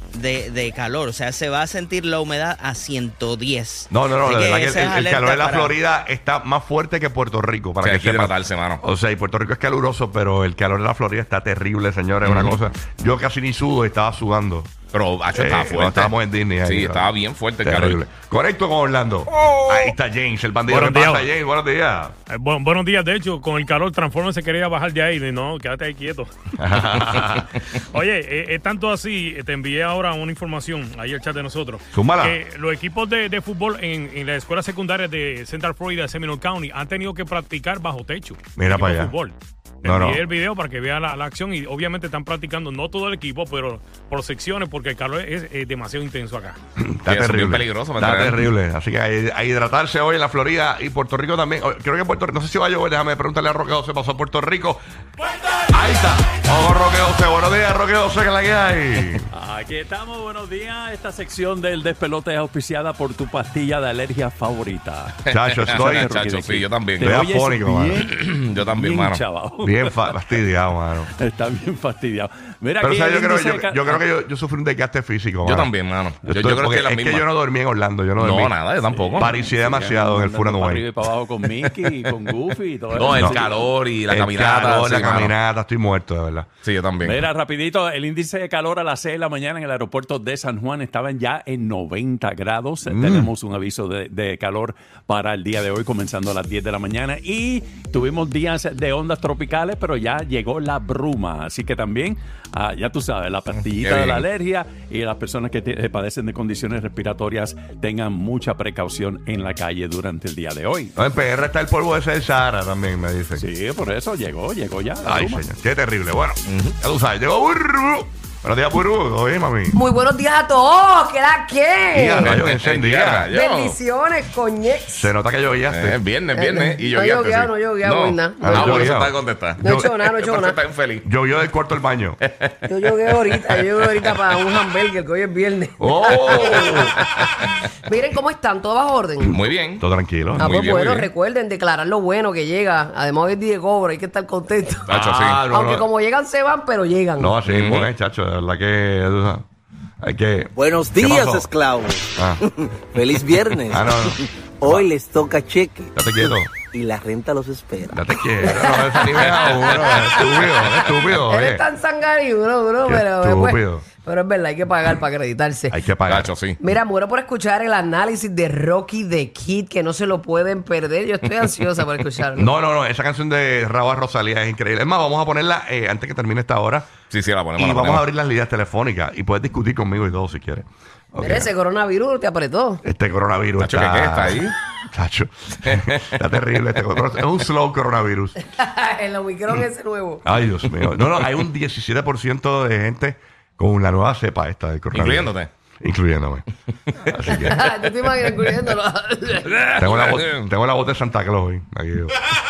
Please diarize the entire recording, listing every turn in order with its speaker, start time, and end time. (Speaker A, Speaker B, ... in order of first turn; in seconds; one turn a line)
Speaker A: 0.1-5.7
Speaker B: 3.9-14.7
Speaker C: 7.8-8.8
Speaker C: 12.2-12.6
Speaker C: 14.9-18.0
Speaker B: 15.3-17.1
Speaker B: 17.6-22.1
Speaker D: 20.7-21.3
Speaker D: 22.3-46.6
Speaker B: 26.6-27.5
Speaker B: 31.9-32.4
Speaker B: 38.6-39.1
Speaker B: 39.8-40.2
Speaker B: 46.8-54.8
Speaker C: 47.1-48.4
Speaker B: 55.7-59.3
Speaker E: 59.3-70.4
Speaker B: 65.3-66.1
Speaker C: 65.7-67.1
Speaker B: 67.0-68.0
Speaker C: 68.1-69.2
Speaker B: 69.6-71.1
Speaker E: 71.2-74.0
Speaker B: 72.8-75.7
Speaker C: 75.4-77.3
Speaker B: 76.3-78.6
Speaker C: 78.2-79.3
Speaker E: 78.9-83.7
Speaker B: 79.2-80.8
Speaker C: 82.9-85.3
Speaker B: 83.1-83.4
Speaker B: 84.1-86.5
Speaker C: 86.6-87.2
Speaker E: 87.0-110.9
Speaker B: 92.9-93.3
Speaker C: 103.8-104.2
Speaker B: 111.0-113.5
Speaker E: 113.4-115.4
Speaker B: 115.0-119.8
Speaker C: 116.5-116.8
Speaker F: 119.7-122.4
Speaker B: 121.9-123.3
Speaker C: 122.2-123.8
Speaker F: 123.3-125.1
Speaker B: 124.9-126.0
Speaker C: 125.7-131.1
Speaker F: 126.3-128.9
Speaker B: 128.4-129.9
Speaker F: 129.6-130.6
Speaker B: 131.0-132.2
Speaker C: 132.2-134.2
Speaker F: 132.7-136.9
Speaker B: 135.8-137.0
Speaker C: 136.5-137.3
Speaker F: 137.8-139.4
Speaker C: 139.2-139.8
Speaker B: 139.8-140.9
Speaker C: 140.4-141.1
Speaker F: 140.4-147.4
Speaker C: 144.9-145.4
Speaker B: 144.9-145.9
Speaker B: 147.2-149.4
Speaker C: 147.5-147.9
Speaker B: 150.0-151.5
Speaker G: 150.6-155.9
Speaker B: 152.2-152.4
Speaker B: 153.7-154.9
Speaker B: 155.9-156.5
Speaker G: 156.7-158.0
Speaker B: 157.9-161.7
Speaker F: 158.4-165.8
Speaker B: 162.8-163.8
Speaker B: 165.7-166.3
Speaker C: 166.1-166.6
Speaker F: 166.6-172.5
Speaker B: 172.3-176.9
Speaker C: 177.1-178.0
Speaker B: 177.6-181.5
Speaker F: 181.2-182.8
Speaker B: 182.8-188.4
Speaker C: 183.6-184.6
Speaker C: 185.6-186.1
Speaker F: 188.5-190.2
Speaker B: 190.2-196.4
Speaker C: 194.9-195.5
Speaker B: 197.1-197.7
Speaker F: 197.3-199.5
Speaker C: 199.5-200.5
Speaker B: 199.8-202.2